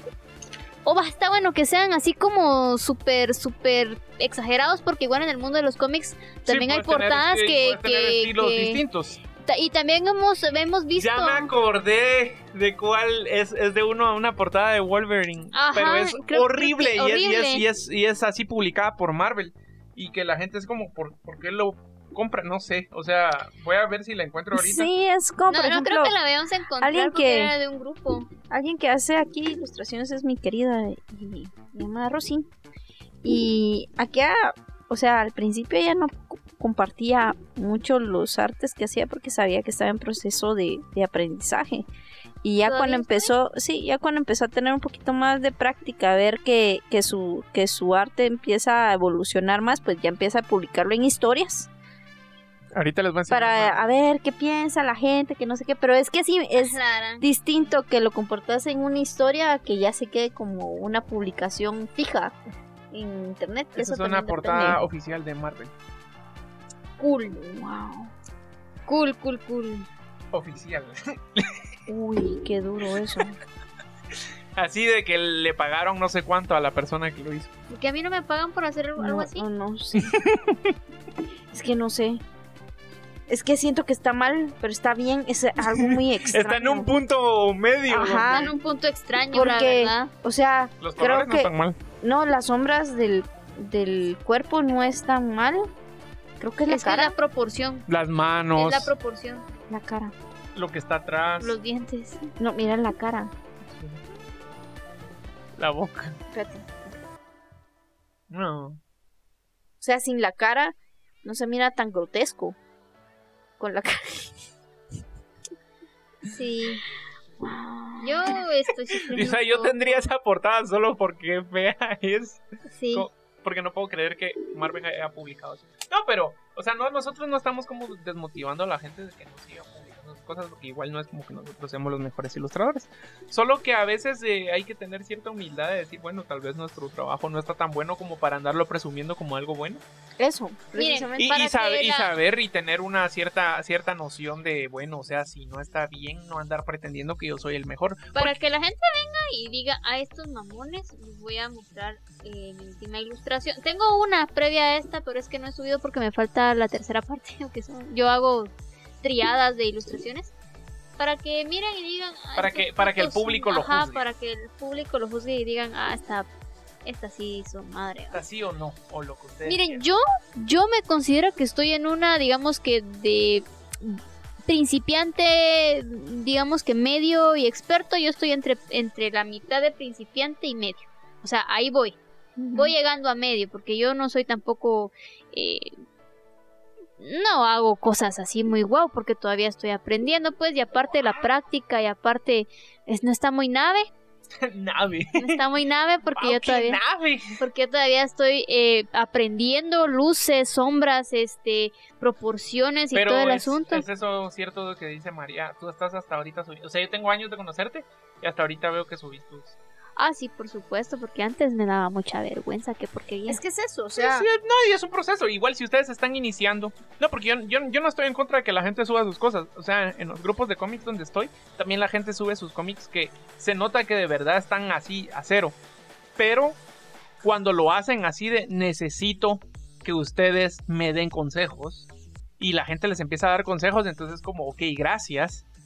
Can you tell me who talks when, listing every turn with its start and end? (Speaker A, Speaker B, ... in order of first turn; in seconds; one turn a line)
Speaker A: 0.8-8.8
Speaker B: 6.5-9.2
Speaker A: 9.4-11.5
Speaker B: 11.0-24.9
Speaker A: 15.5-17.6
Speaker C: 24.5-26.1
Speaker A: 25.5-28.3
Speaker C: 26.8-27.5
Speaker C: 28.5-32.5
Speaker C: 33.2-41.9
Speaker C: 42.4-51.7
Speaker A: 42.6-43.3
Speaker B: 52.7-53.8
Speaker C: 53.3-62.4
Speaker A: 56.5-57.7
Speaker C: 62.9-64.8
Speaker B: 63.8-65.7
Speaker A: 67.0-67.4
Speaker C: 67.3-68.1
Speaker A: 68.9-69.9
Speaker B: 70.3-71.6
Speaker C: 71.9-73.4
Speaker B: 74.6-77.5
Speaker A: 77.7-79.5
Speaker C: 79.0-80.2
Speaker B: 80.0-80.8
Speaker C: 81.5-82.2
Speaker C: 83.3-86.9
Speaker B: 85.6-88.5
Speaker C: 87.9-88.5
Speaker A: 88.0-90.1
Speaker C: 89.3-95.7
Speaker B: 90.8-91.8
Speaker C: 96.4-97.2
Speaker A: 96.7-97.8
Speaker B: 97.9-98.9
Speaker A: 98.6-99.5
Speaker C: 99.7-100.2
Speaker B: 100.5-101.6
Speaker A: 101.4-102.2
Speaker C: 102.4-103.3
Speaker B: 103.7-104.0
Speaker B: 105.6-106.2
Speaker C: 106.3-107.0
Speaker B: 108.3-108.8
Speaker C: 109.8-112.6
Speaker C: 113.6-114.5
Speaker A: 116.3-116.8
Speaker C: 117.4-118.4
Speaker A: 118.0-120.0
Speaker B: 119.1-139.8
Speaker A: 122.7-123.1
Speaker C: 140.2-141.4
Speaker A: 140.8-142.1
Speaker B: 141.2-148.3
Speaker A: 148.2-160.3
Speaker A: 161.0-166.3
Speaker B: 162.4-164.0
Speaker A: 166.8-168.2
Speaker B: 168.1-169.8
Speaker A: 169.5-182.0
Speaker C: 182.4-182.8
Speaker A: 182.5-185.8
Speaker A: 187.0-193.9
Speaker B: 194.4-195.4
Speaker A: 195.2-196.8
Speaker B: 196.1-197.4
Speaker A: 197.4-203.9
Speaker B: 202.9-209.6
Speaker A: 210.0-213.4
Speaker C: 213.3-214.3
Speaker B: 214.0-225.6
Speaker B: 226.2-226.6
Speaker B: 227.2-231.9
Speaker B: 232.4-235.4